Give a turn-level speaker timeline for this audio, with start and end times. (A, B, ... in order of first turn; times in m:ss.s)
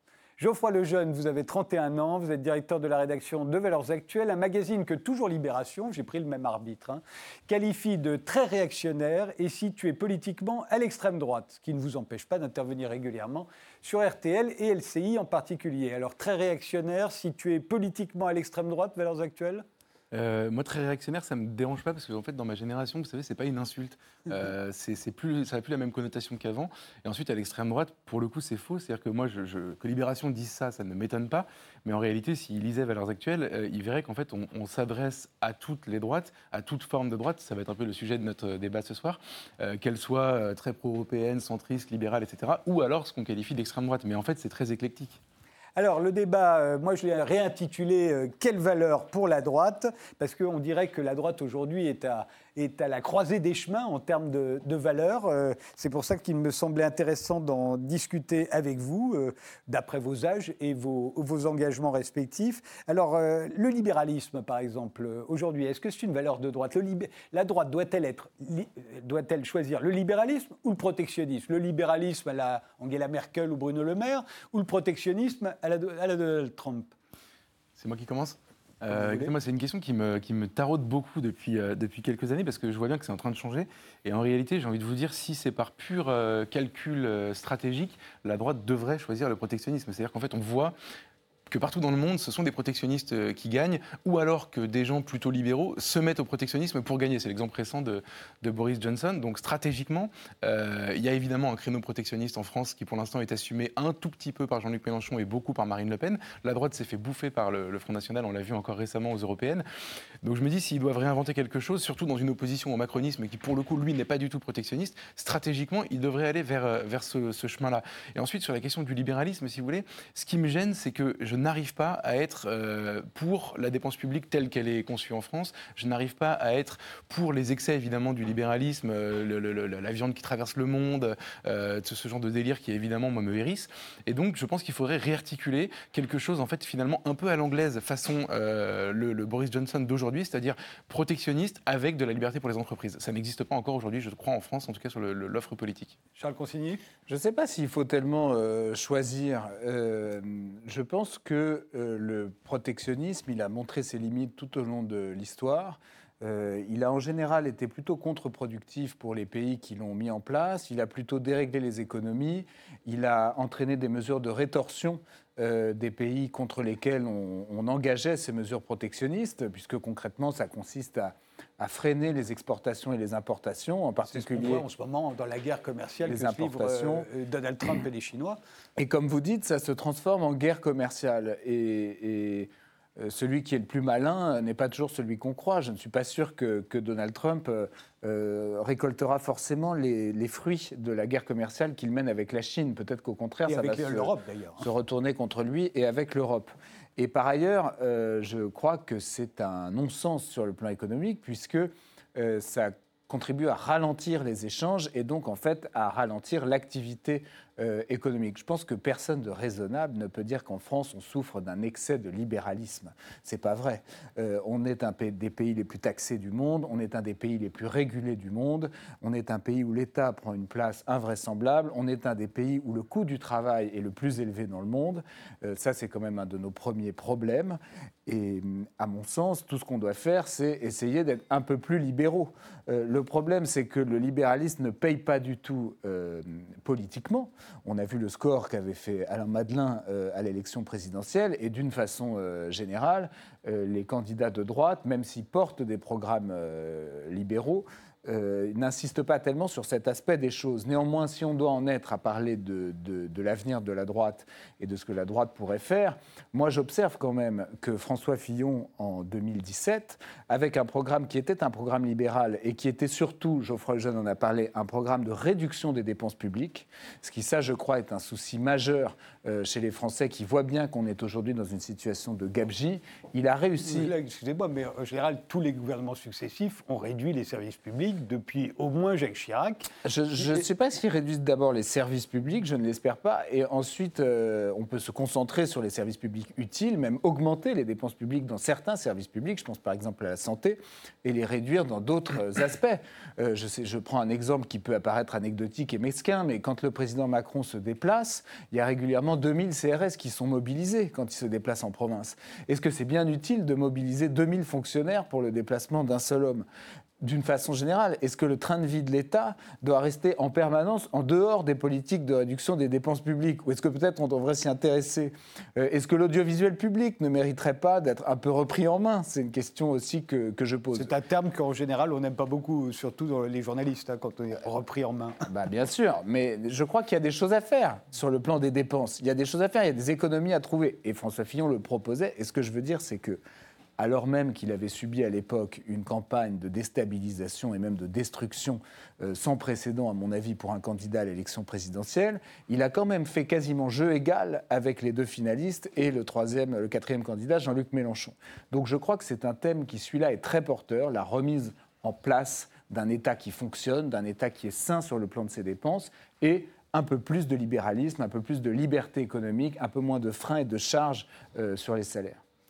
0:00.4-0:19.6 A
0:20.1-0:45.2 B
0:45.8-1:16.9 A
1:17.8-1:30.8 B
1:18.9-1:19.3 A
1:31.5-1:49.6 B
1:50.2-2:26.0 B
2:26.2-2:26.8 A
2:27.1-2:54.6 C
2:54.1-2:58.4 A
2:56.0-2:57.1 C
2:58.8-4:33.9 C
3:13.4-3:14.7 A
4:33.6-4:39.7 A
4:39.8-5:06.4 C
5:07.0-5:20.9 C
5:20.7-5:25.2 A
5:25.2-5:33.2 C
5:33.8-6:02.2 C